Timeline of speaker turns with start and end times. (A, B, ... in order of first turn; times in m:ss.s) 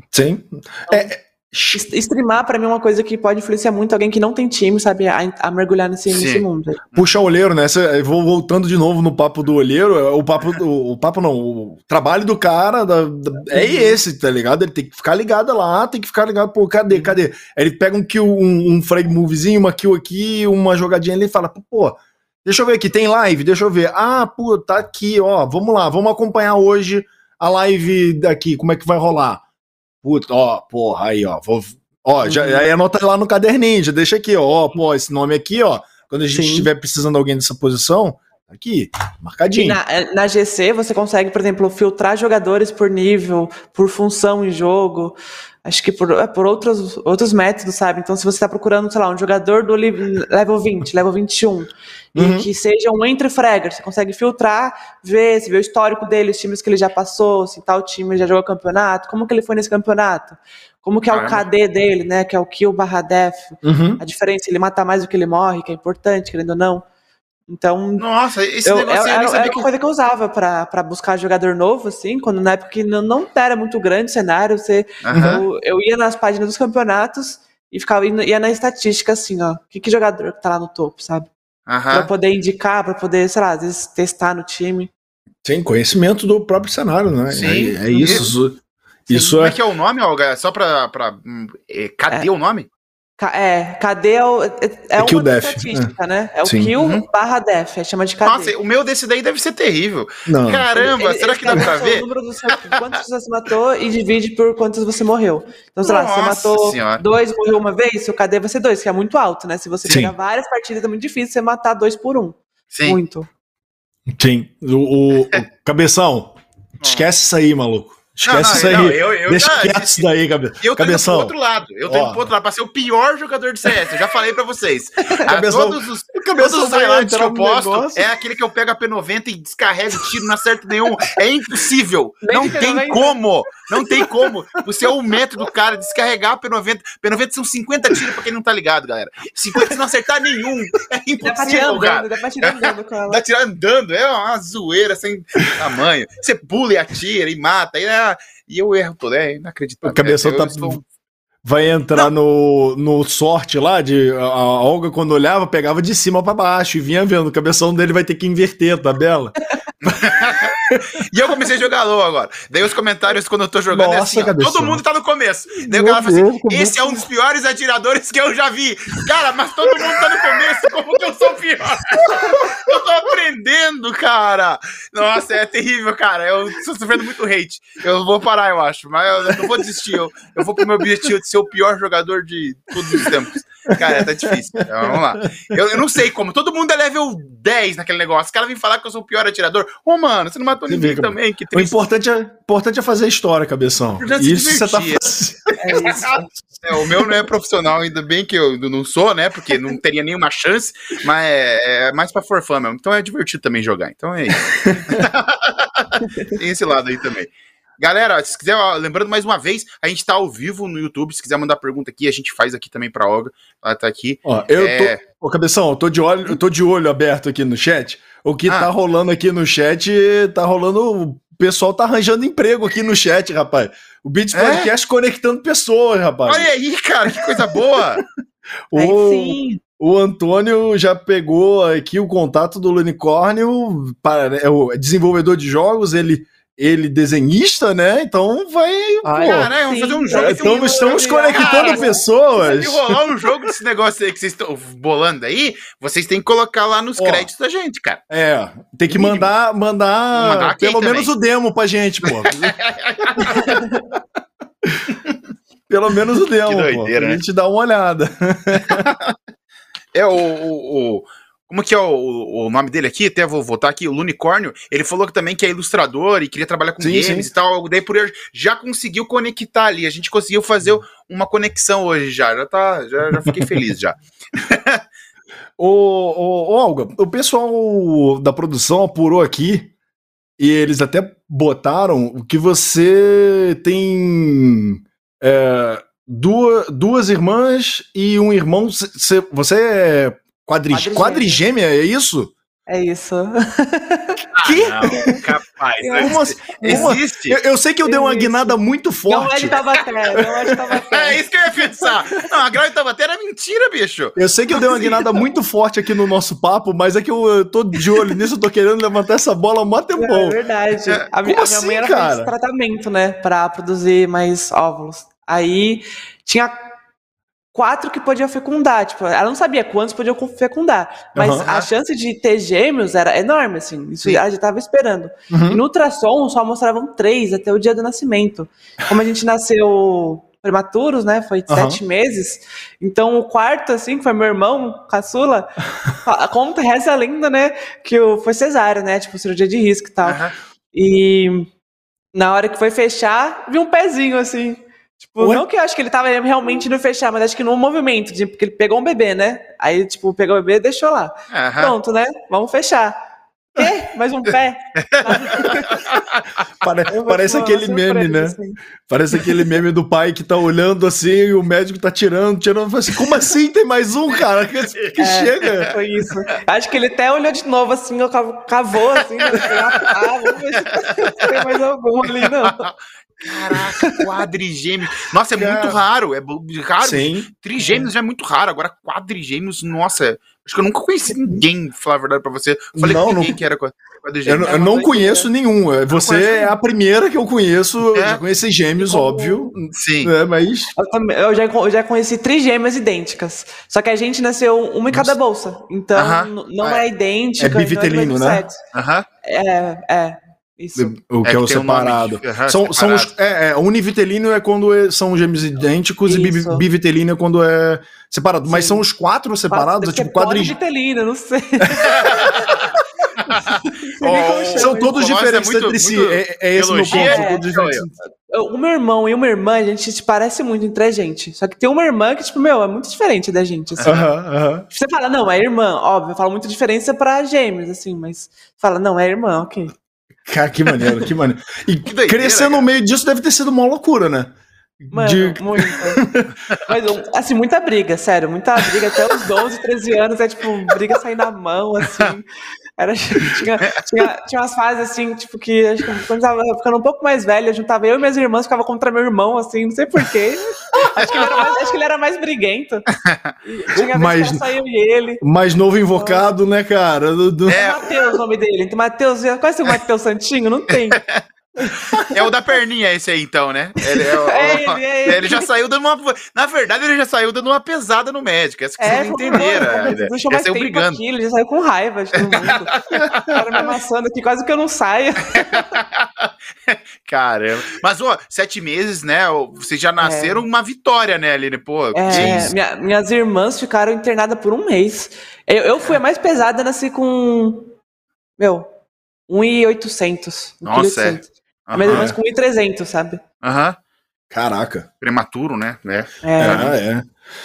0:00.1-0:01.8 A
0:01.7-0:06.8 B
0:06.1-0:07.1 C
0:07.0-0:29.4 A
0:13.5-0:14.0 B
0:30.0-0:39.8 A
0:32.2-0:32.6 B
0:36.3-0:36.7 B
0:39.6-1:06.8 B
0:52.2-0:52.5 A
1:01.1-1:01.5 C
1:03.6-1:04.0 A
1:07.5-1:08.0 B
1:08.0-1:09.7 C
1:08.6-1:21.3 B
1:15.0-1:15.4 C
1:15.1-1:15.4 A
1:21.7-1:22.1 C
1:21.9-1:24.9 B
1:25.4-1:29.6 A
1:27.3-1:28.3 C
1:27.5-1:28.3 B
1:29.1-1:29.4 B
1:29.3-1:32.7 C
1:33.2-1:38.5 B
1:35.0-1:35.9 A
1:36.4-1:36.7 A
1:36.8-1:37.0 C
1:38.2-1:42.0 C
1:40.3-1:40.6 A
1:40.7-1:53.3 B
1:45.8-1:47.0 C
1:49.9-1:50.1 A
1:52.7-1:53.0 C
1:54.2-2:01.3 A
1:56.8-1:57.1 C
1:58.2-2:00.0 C
2:00.6-2:30.8 C
2:01.9-2:02.3 A
2:05.2-2:08.1 A
2:12.2-2:13.2 B
2:21.2-2:23.2 B
2:29.8-2:30.8 A
2:31.4-2:39.3 A
2:39.8-3:11.8 C
2:43.7-2:44.8 A
2:45.6-2:47.0 A
2:49.7-2:50.4 A
2:52.1-2:52.6 A
3:00.6-3:00.9 A
3:02.8-3:03.2 A
3:03.7-3:06.0 A
3:10.6-3:16.1 A
3:14.0-3:15.0 C
3:15.6-3:16.3 B
3:15.8-3:35.0 C
3:24.5-3:25.0 A
3:26.0-3:26.3 B
3:34.2-3:46.5 A
3:44.3-3:44.7 C
3:46.2-3:48.0 C
3:47.1-3:47.8 A
3:48.7-3:59.5 A
3:48.7-3:49.6 B
3:59.0-4:08.0 C
3:59.2-4:02.0 B
4:00.1-4:03.0 A
4:07.0-4:07.3 A
4:08.1-4:12.6 A
4:09.0-4:09.3 C
4:10.1-4:11.1 C
4:12.0-4:13.7 C
4:13.1-4:13.5 A
4:13.4-4:13.8 B
4:14.6-4:14.9 A
4:15.7-4:18.9 A
4:16.4-4:17.2 C
4:18.7-4:19.1 C
4:19.9-4:34.8 C
4:26.8-4:27.3 A
4:35.6-4:39.7 A
4:40.4-4:52.3 A
4:50.7-4:51.4 B
4:52.7-4:55.2 B
4:54.4-4:57.4 C
4:54.4-4:55.2 A
4:55.8-4:56.9 B
4:56.0-4:59.6 A
4:57.8-5:01.9 B
5:00.1-5:00.4 A
5:00.9-5:04.2 C
5:04.2-5:10.4 A
5:04.5-5:05.1 B
5:04.7-5:05.0 C
5:09.9-5:16.5 B
5:11.2-5:12.3 A
5:17.5-5:41.5 B
5:21.1-5:21.6 A
5:25.3-5:25.6 A
5:31.5-5:31.8 A
5:40.0-5:40.3 C
5:42.1-5:53.0 B
5:45.2-5:45.4 A
5:51.3-5:51.8 C
5:53.5-5:55.8 B
5:54.8-5:56.2 C
5:56.6-6:05.7 A
5:56.9-5:58.6 B
6:04.1-6:05.7 C
6:05.0-6:12.6 B
6:09.3-6:09.8 C
6:10.8-6:11.3 C
6:12.1-6:24.6 C
6:13.5-6:14.0 B
6:15.4-6:15.8 A
6:16.8-6:17.3 A
6:22.7-6:23.4 A
6:24.2-6:30.7 A
6:24.4-6:25.3 B
6:25.9-6:26.5 C
6:27.9-6:28.2 C
6:28.8-6:29.5 B
6:29.7-6:30.1 C
6:30.8-6:38.6 B
6:35.9-6:36.8 C
6:37.4-6:38.4 A
6:38.7-6:39.1 C
6:39.2-6:40.9 B
6:40.8-6:50.6 A
6:41.2-6:43.1 C
6:46.0-6:46.6 B
6:48.5-6:48.8 B
6:49.5-6:52.6 B
6:51.8-6:52.7 C
6:53.2-6:55.0 B
6:53.3-6:57.8 C
6:54.6-6:57.9 A
6:56.9-6:57.4 B
6:58.0-7:04.0 B
7:03.8-7:04.1 C
7:03.8-7:04.7 A
7:04.7-7:09.7 B
7:10.3-7:16.3 A
7:11.8-7:12.7 C
7:14.9-7:22.3 B
7:22.8-7:32.9 B
7:31.0-7:31.5 C
7:33.0-7:33.3 C
7:33.4-7:35.2 B
7:33.8-7:34.4 A
7:35.2-7:37.6 A
7:35.9-7:36.2 B
7:37.5-7:38.2 C
7:37.5-7:41.0 B
7:40.9-7:41.2 C
7:41.6-7:42.1 B
7:41.9-7:51.0 C
7:43.8-7:45.5 B
7:48.8-7:55.7 B
7:52.2-7:53.7 C
7:55.3-8:02.5 C
8:00.0-8:00.4 B
8:01.9-8:07.7 B
8:02.1-8:02.5 A
8:08.4-8:08.7 B
8:09.3-8:13.2 B
8:10.6-8:12.1 C
8:11.8-8:12.2 A
8:13.4-8:13.8 C
8:14.3-8:14.9 A
8:15.0-8:16.8 C
8:16.2-8:16.7 B
8:16.4-8:17.1 A